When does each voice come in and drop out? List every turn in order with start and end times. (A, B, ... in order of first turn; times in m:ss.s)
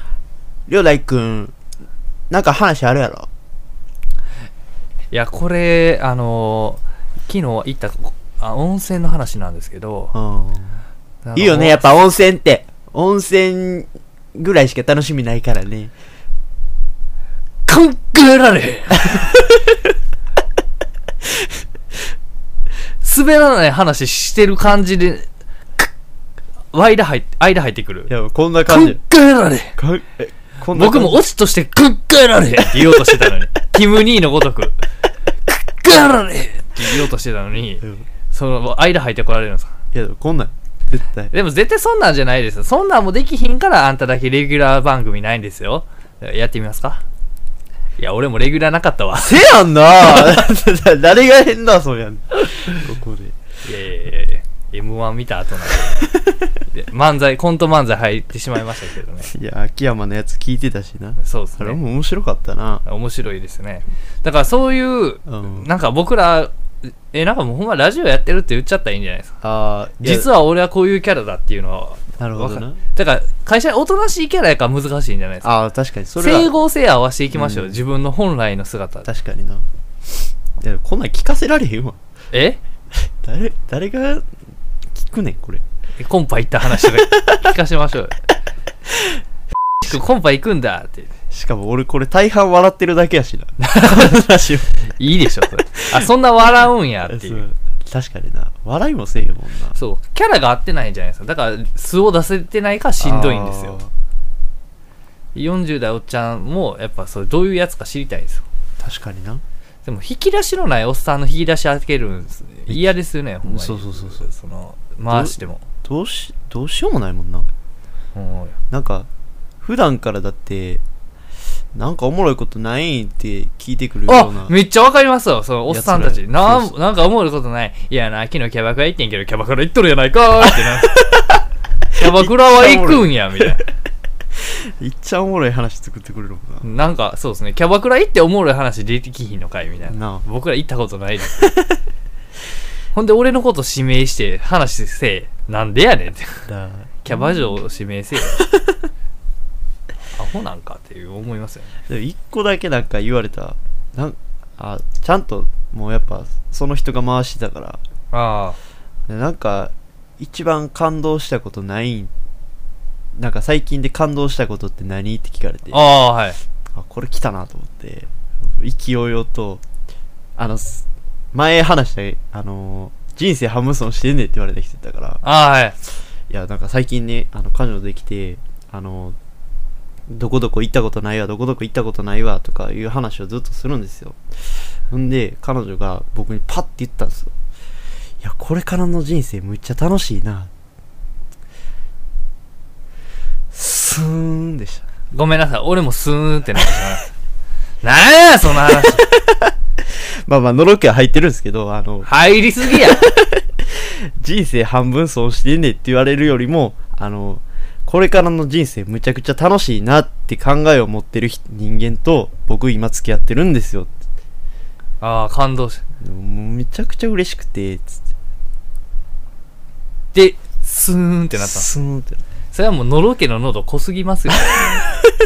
0:00.7-0:01.5 A
0:02.3-0:03.3 A
0:05.1-0:10.1 B
0:10.1-0:10.8 A
0:11.2-0:11.9 B
0:11.3-0:15.9 A
0:17.7-0:19.3 B
0:19.1-0:19.7 A
0:23.0-0:25.3 B
0:26.7-0:28.1 B
0:28.1-0:29.0 A
0:28.7-0:29.8 B
0:29.8-0:31.2 A
0:30.7-0:34.8 B
0:35.5-0:39.7 B
0:37.8-0:38.0 A
0:39.9-0:41.3 A
0:41.3-0:47.0 B
0:48.0-0:49.4 B
0:49.1-0:53.4 A
0:53.6-0:56.0 B
0:56.0-0:56.5 A
0:56.7-0:59.3 B
0:59.2-1:02.8 A
1:01.2-1:01.8 B
1:02.8-1:09.3 B
1:05.2-1:05.7 A
1:09.4-1:10.3 A
1:10.0-1:15.5 B
1:12.2-1:12.8 A
1:15.4-1:16.5 A
1:16.2-1:19.1 B
1:17.3-1:17.8 A
1:19.0-1:19.6 A
1:20.6-1:22.0 A
1:22.3-1:22.6 B
1:23.0-1:24.3 A
1:24.9-1:25.6 A
1:26.0-1:28.1 B
1:26.8-1:27.4 A
1:29.8-1:31.1 B
1:31.3-1:34.9 A
1:33.7-1:34.1 B
1:34.9-1:37.4 B
1:37.0-1:39.8 A
1:39.8-1:43.8 B
1:43.0-1:43.9 A
1:45.3-1:48.4 B
1:48.8-1:49.4 A
1:49.8-1:55.6 B
1:53.4-1:54.3 A
1:55.1-1:57.5 A
1:58.1-1:58.6 B
1:58.7-1:59.1 A
1:59.6-2:00.8 A
2:01.7-2:04.5 A
2:04.1-2:11.0 B
2:05.7-2:06.7 A
2:10.6-2:11.4 A
2:11.9-2:13.5 A
2:11.9-2:13.6 B
2:14.4-2:16.7 A
2:16.6-2:21.5 B
2:19.9-2:20.2 A
2:22.9-2:26.5 B
2:26.5-2:27.3 A
2:27.0-2:28.4 B
2:30.1-2:31.7 B
2:31.9-2:37.8 A
2:38.1-2:38.6 B
2:39.1-2:42.1 A
2:43.2-2:45.9 A
2:45.7-2:46.4 B
2:46.7-2:49.6 A
2:50.4-2:55.2 A
2:55.2-2:55.7 B
2:56.3-2:59.2 A
3:00.1-3:04.2 A
3:04.9-3:07.3 A
3:08.2-3:10.5 A
3:13.5-3:14.8 A
3:15.1-3:17.1 B
3:17.8-3:19.0 B
3:18.8-3:22.1 A
3:22.0-3:23.0 B
3:22.7-3:34.0 A
3:35.0-3:35.8 B
3:36.0-3:38.0 A
3:40.1-3:41.7 B
3:41.4-3:42.2 A
3:42.5-3:44.8 B